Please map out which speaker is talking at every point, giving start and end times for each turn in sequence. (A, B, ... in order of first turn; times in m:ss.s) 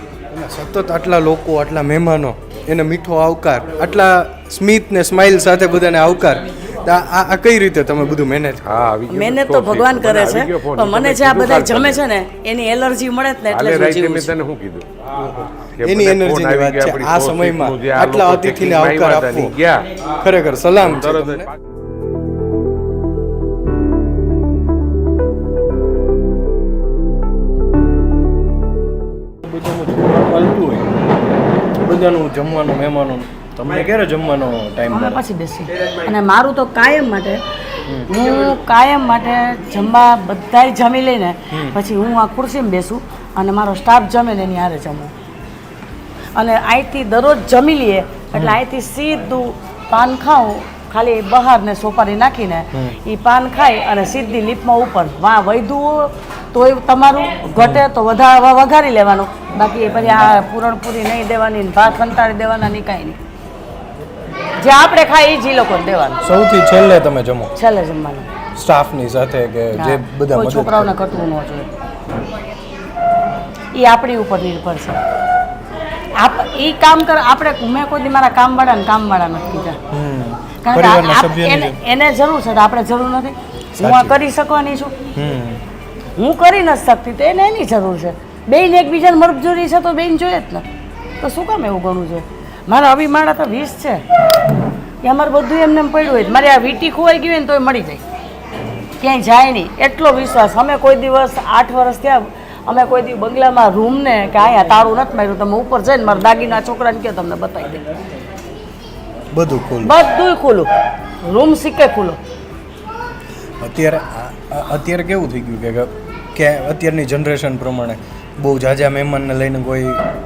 0:00.3-0:08.6 A
0:08.6-0:12.0 B
0:09.1-0:14.3 C
0:13.5-0:20.2 B
0:15.3-0:19.6 A
0:20.2-0:21.5 A
0:20.8-0:21.6 B
0:29.4-0:30.9 A
0:31.8-0:35.2 A
0:34.9-0:37.4 C
0:38.1-0:45.1 C
0:46.4-1:03.2 C
0:57.6-0:57.8 A
1:04.6-1:06.2 C
1:06.2-1:07.5 A
1:07.6-1:08.3 C
1:08.6-1:10.9 A
1:09.8-1:11.7 C
1:13.8-1:15.0 C
1:16.2-1:19.8 C
1:19.9-1:21.8 A
1:20.6-1:24.9 C
1:23.8-1:24.2 A
1:25.2-1:25.6 A
1:26.2-1:30.6 C
1:31.2-1:34.0 C
1:35.0-1:38.0 C
1:39.0-1:47.8 C
1:49.3-1:49.9 A
1:49.8-1:50.7 C
1:51.2-1:52.2 C
1:53.6-2:00.0 A